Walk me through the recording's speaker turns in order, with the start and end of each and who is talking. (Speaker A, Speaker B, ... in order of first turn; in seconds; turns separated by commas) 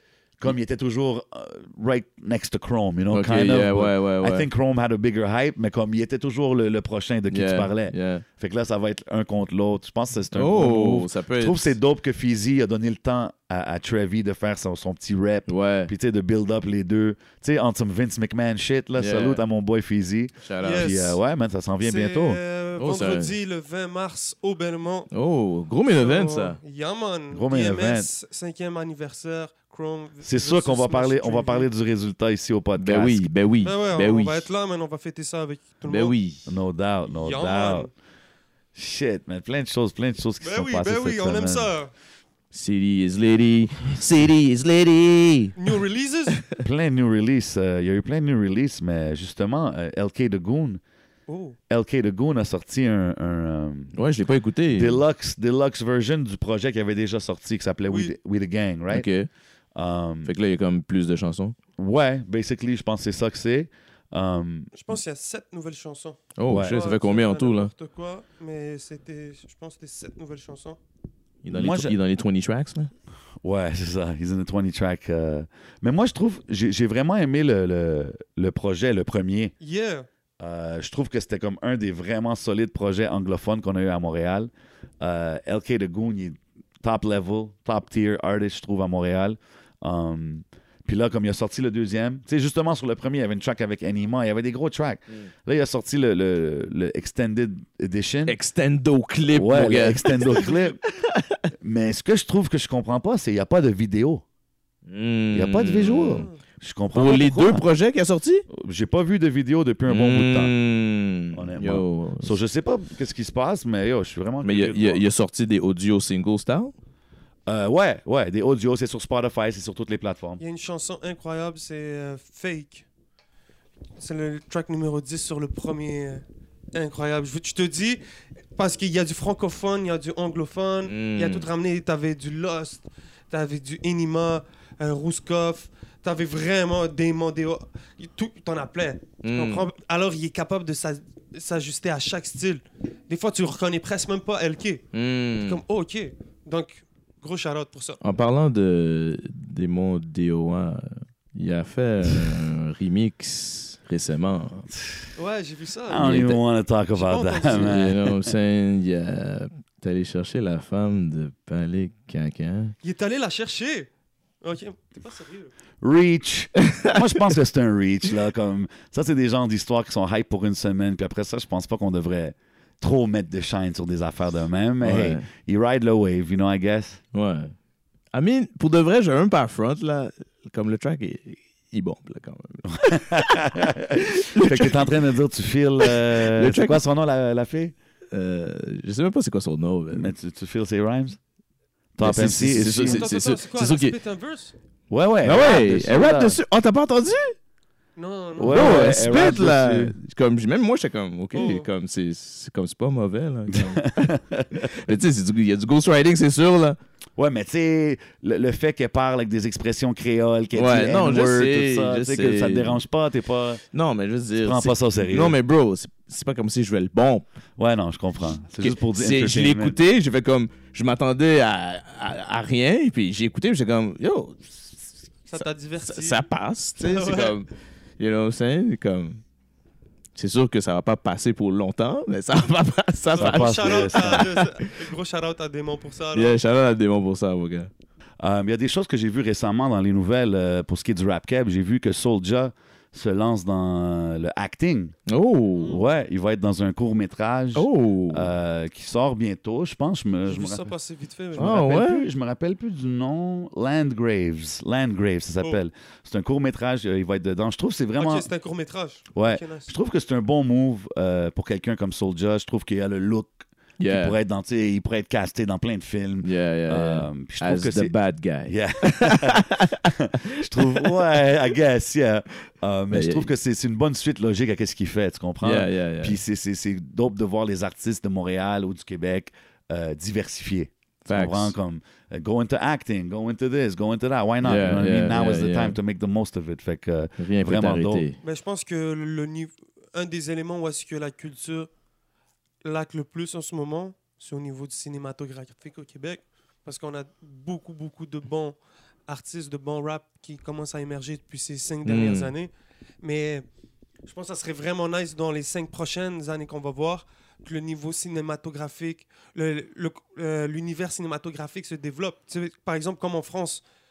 Speaker A: 0.4-22.4, Speaker B: 3.1-4.5, Speaker B: 7.3-8.2, Speaker B: 10.3-11.8, Speaker B: 15.5-15.9, Speaker B: 19.0-19.4, Speaker B: 20.4-21.0, Speaker C: 20.6-21.2, Speaker C: 21.8-25.1, Speaker B: 22.8-23.3, Speaker B: 25.1-26.6, Speaker C: 26.0-31.7, Speaker A: 27.3-28.1, Speaker A: 30.2-33.3, Speaker B: 32.8-34.5, Speaker C: 33.6-36.2, Speaker B: 35.9-36.5, Speaker A: 36.5-37.9, Speaker C: 37.1-37.9, Speaker A: 38.8-41.7, Speaker C: 40.4-41.9, Speaker B: 42.5-45.6, Speaker C: 45.6-46.4, Speaker A: 46.6-50.8, Speaker C: 51.3-51.6, Speaker A: 51.7-54.0, Speaker B: 54.0-55.0, Speaker A: 54.7-59.1, Speaker C: 57.9-58.1, Speaker B: 58.9-59.3, Speaker A: 59.8-60.3, Speaker B: 60.2-61.5, Speaker A: 61.8-64.7, Speaker C: 64.7-70.8, Speaker B: 66.4-67.7, Speaker A: 66.5-66.8, Speaker B: 71.4-72.9, Speaker A: 71.5-72.0, Speaker A: 73.4-79.5, Speaker C: 79.6-80.1, Speaker A: 80.4-98.3, Speaker B: 98.3-101.4, Speaker A: 99.3-100.8, Speaker A: 101.6-104.2, Speaker B: 104.9-106.3, Speaker A: 105.3-107.6, Speaker B: 106.9-108.5, Speaker A: 108.5-110.5, Speaker B: 109.9-112.4, Speaker A: 111.3-115.0, Speaker B: 114.4-116.7, Speaker A: 117.5-120.4, Speaker C: 120.4-122.9, Speaker C: 124.0-128.0, Speaker C: 128.6-144.8, Speaker B: 130.9-131.5, Speaker B: 139.2-139.7, Speaker B: 144.9-145.6, Speaker C: 145.3-148.0, Speaker B: 148.0-154.7, Speaker A: 154.8-155.0, Speaker C: 155.2-156.3, Speaker A: 155.9-158.3, Speaker B: 156.0-156.4, Speaker C: 156.9-157.8, Speaker B: 157.5-162.8, Speaker C: 162.8-163.9, Speaker C: 164.4-165.5, Speaker A: 165.8-177.0, Speaker B: 166.8-167.2, Speaker B: 174.8-175.2, Speaker B: 177.1-177.5, Speaker B: 178.1-184.9, Speaker A: 182.7-187.8, Speaker B: 185.8-186.8, Speaker B: 188.1-190.1, Speaker A: 189.9-191.2, Speaker A: 192.0-193.1, Speaker B: 192.0-193.9, Speaker C: 192.8-194.5, Speaker A: 194.9-196.4, Speaker B: 195.2-197.4, Speaker C: 198.0-198.9, Speaker A: 198.4-200.0, Speaker B: 198.5-206.8, Speaker C: 201.3-201.7, Speaker A: 203.5-205.0, Speaker A: 207.2-213.6, Speaker B: 210.6-212.8, Speaker B: 213.7-217.2, Speaker A: 214.4-215.4, Speaker A: 217.6-219.8, Speaker B: 218.6-224.8, Speaker B: 225.3-229.2, Speaker C: 225.3-226.2, Speaker C: 226.8-227.3, Speaker B: 230.2-234.8, Speaker C: 233.1-236.4, Speaker A: 233.2-234.3, Speaker B: 236.1-237.7, Speaker A: 238.2-244.9, Speaker B: 245.1-245.8, Speaker C: 245.5-245.8, Speaker A: 245.7-250.7, Speaker B: 247.6-248.3, Speaker C: 250.3-251.6, Speaker A: 251.4-258.3, Speaker B: 251.4-252.1, Speaker C: 258.0-259.7, Speaker A: 259.1-288.1, Speaker B: 263.8-264.2, Speaker B: 266.2-271.2, Speaker B: 272.9-273.3, Speaker B: 275.4-276.2, Speaker B: 281.1-281.5, Speaker B: 284.4-285.8, Speaker B: 287.2-288.2, Speaker C: 288.2-291.7, Speaker C: 292.6-302.5, Speaker B: 301.9-302.3, Speaker C: 303.0-303.4, Speaker C: 304.1-313.6